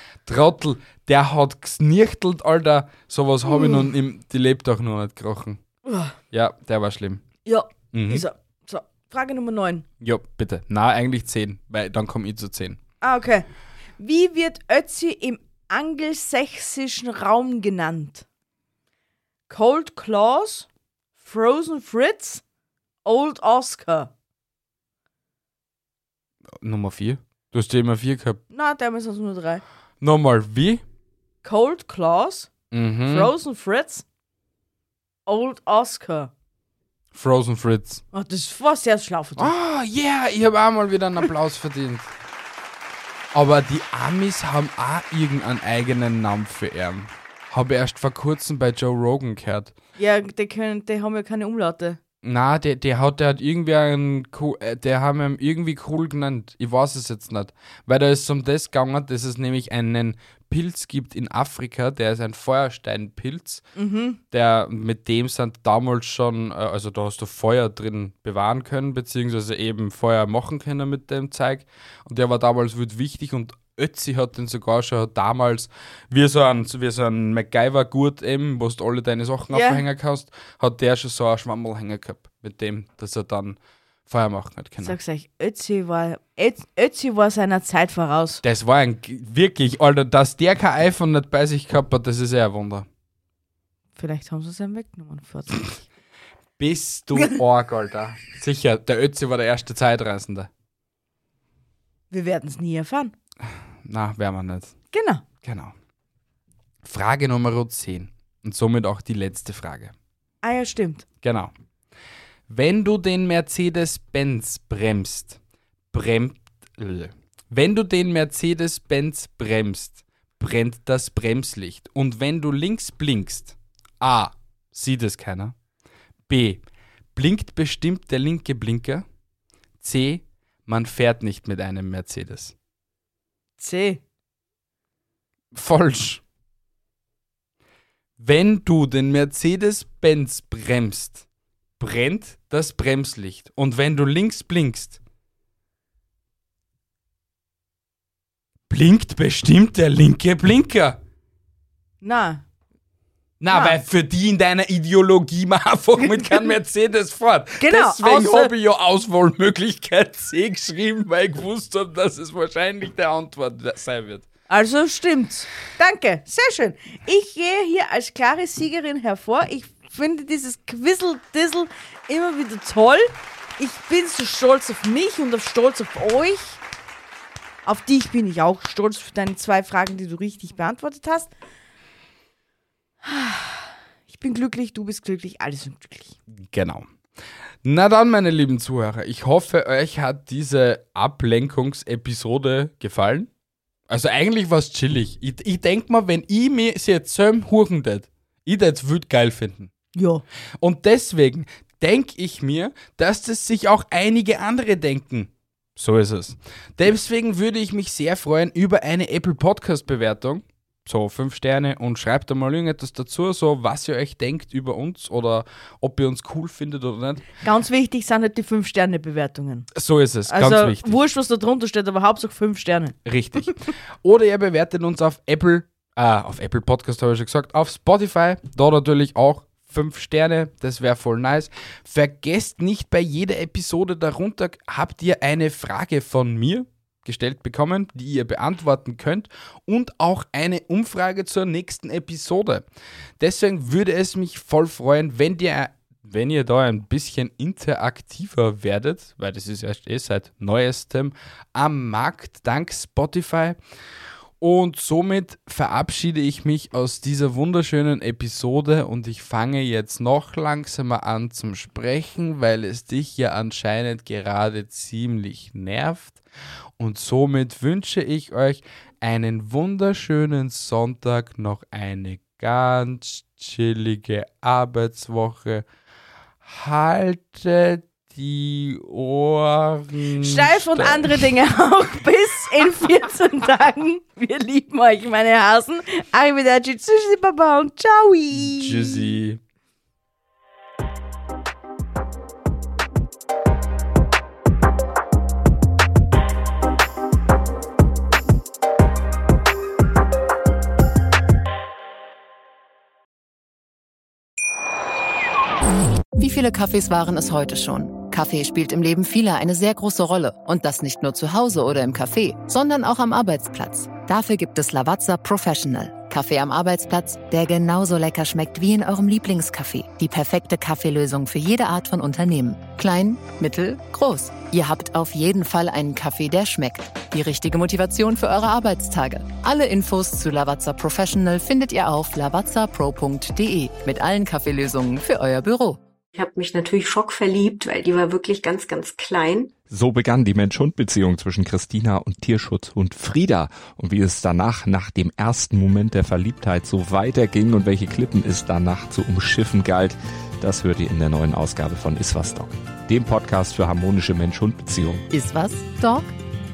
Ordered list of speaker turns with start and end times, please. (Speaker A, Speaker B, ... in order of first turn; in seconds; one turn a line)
Speaker A: 0.2-5.6
Speaker B: 3.5-3.9
Speaker B: 5.8-6.2
Speaker A: 6.3-7.2
Speaker B: 7.4-9.8
Speaker A: 7.9-8.2
Speaker A: 10.0-12.8
Speaker B: 13.0-13.4
Speaker B: 14.0-18.2
Speaker B: 19.5-20.7
Speaker B: 21.2-22.4
Speaker B: 23.0-24.1
Speaker A: 26.6-28.4
Speaker B: 28.5-29.6
Speaker A: 30.0-30.8
Speaker B: 31.4-32.5
Speaker A: 32.7-33.3
Speaker B: 33.1-34.0
Speaker B: 35.2-36.3
Speaker A: 37.1-38.0
Speaker B: 38.1-39.5
Speaker A: 39.4-42.1
Speaker A: 43.3-49.7
Speaker B: 50.0-52.0
Speaker A: 52.2-63.7
Speaker B: 63.8-64.2
Speaker A: 64.3-85.0
Speaker B: 79.5-79.8
Speaker B: 84.8-88.4
Speaker A: 88.4-92.9
Speaker B: 94.0-95.8
Speaker A: 96.6-100.5
Speaker B: 102.1-103.1
Speaker A: 103.8-104.7
Speaker B: 104.9-105.2
Speaker A: 105.4-105.7
Speaker A: 106.8-109.9
Speaker B: 110.4-111.0
Speaker A: 111.2-111.5
Speaker A: 112.5-115.4
Speaker A: 115.9-125.5
Speaker A: 126.3-126.6
Speaker A: 127.1-129.0
Speaker A: 129.8-132.5
Speaker B: 133.6-134.0
Speaker A: 135.5-136.2
Speaker A: 138.2-141.2
Speaker A: 141.8-145.0
Speaker A: 148.7-151.0
Speaker B: 152.0-152.4
Speaker A: 153.4-164.3
Speaker B: 153.5-153.8
Speaker B: 156.2-156.5
Speaker B: 157.6-158.5
Speaker B: 164.5-176.6
Speaker B: 177.6-181.3
Speaker B: 183.0-186.2
Speaker A: 186.4-186.9
Speaker A: 187.6-193.3
Speaker A: 193.9-199.7
Speaker B: 199.9-200.2
Speaker A: 200.6-217.3
Speaker B: 217.4-219.7
Speaker A: 219.7-221.0
Speaker B: 220.3-222.9
Speaker A: 223.0-242.7
Speaker A: 243.2-253.6
Speaker A: 254.4-266.2
Speaker A: 266.8-275.6
Speaker A: 276.4-281.3
Speaker B: 280.2-289.1
Speaker A: 288.3-289.4
Speaker C: 306.1-335.8
Speaker D: 336.1-339.5
Speaker E: 339.6-355.0
Speaker C: 355.1-356.1